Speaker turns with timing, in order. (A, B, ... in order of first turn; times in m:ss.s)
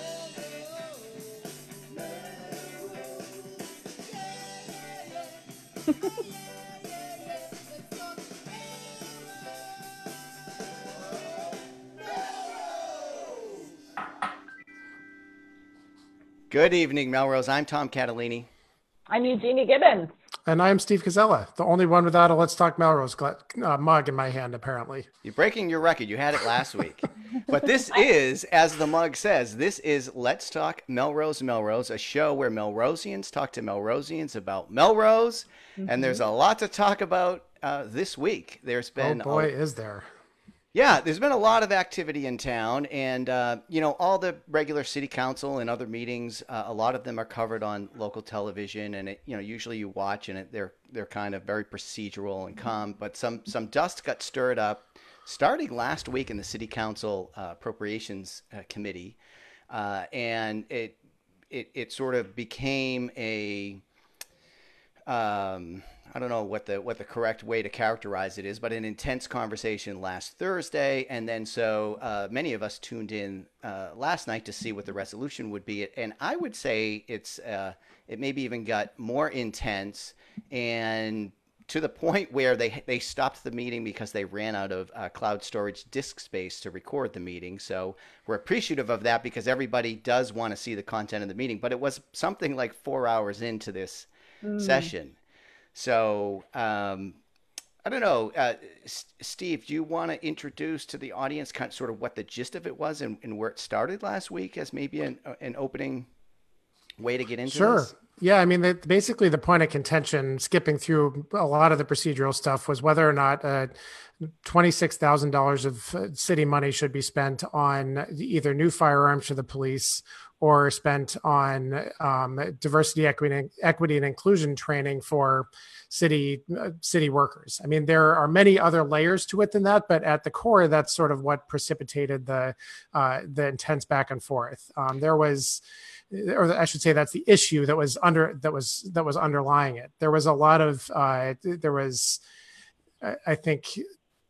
0:16.5-0:18.5 A
0:19.1-0:20.1 B
0:20.5-0:25.1 C
0:25.2-0:39.5 A
0:35.8-0:36.2 B
0:39.0-0:40.1 C
0:40.7-0:59.2 A
0:59.7-1:01.0 A
1:01.5-1:03.8 A
1:05.1-1:35.2 A
1:34.4-1:34.9 B
1:35.7-1:37.2 A
1:37.8-1:46.1 A
1:47.0-1:47.9 A
1:47.5-1:53.7 C
1:54.2-2:22.2 C
2:23.0-2:23.8 C